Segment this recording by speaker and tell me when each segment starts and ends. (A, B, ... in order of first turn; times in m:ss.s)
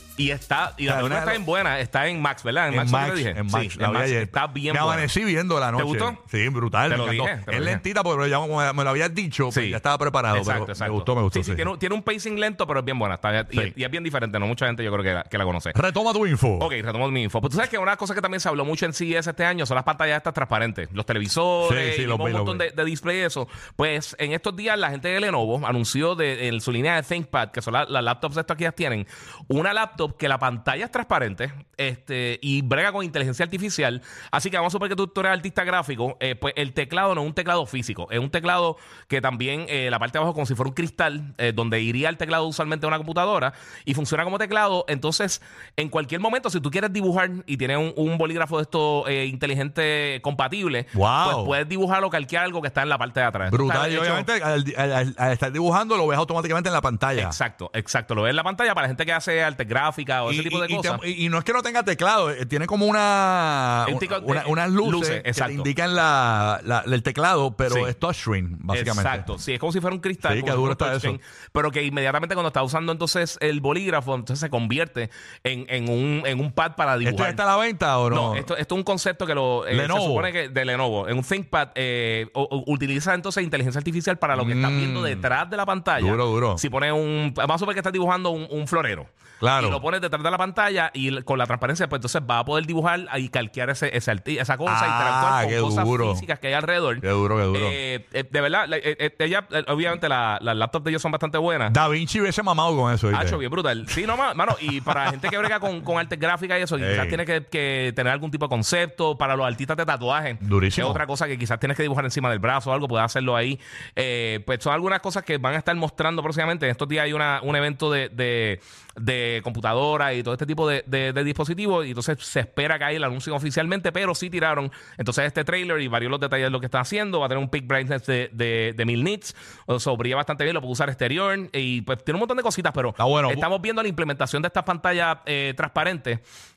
0:00.2-0:05.1 A
0:00.8-0:01.4 B
0:02.7-0:11.7 B
0:05.7-0:06.2 A
0:06.9-0:07.8 A
0:09.5-0:09.8 A
0:10.3-0:15.8 A
0:15.7-0:16.7 B
0:16.6-0:54.3 A
0:21.6-0:22.6 B
0:50.9-0:51.5 B
0:53.5-0:57.4 B
0:57.2-1:01.0 A
1:00.2-1:09.3 B
1:03.8-1:05.7 A
1:07.6-1:07.9 A
1:08.7-1:17.4 A
1:10.2-1:11.2 B
1:17.0-1:18.5 B
1:18.1-1:41.7 A
1:19.7-1:20.3 B
1:24.3-1:25.3 B
1:26.0-1:26.6 B
1:29.4-1:29.8 B
1:34.6-1:36.2 B
1:37.0-1:37.8 B
1:41.7-1:43.4 B
1:43.1-2:16.2 A
1:44.9-1:45.4 B
1:46.8-1:47.2 B
1:50.4-1:51.0 B
2:13.0-2:13.4 B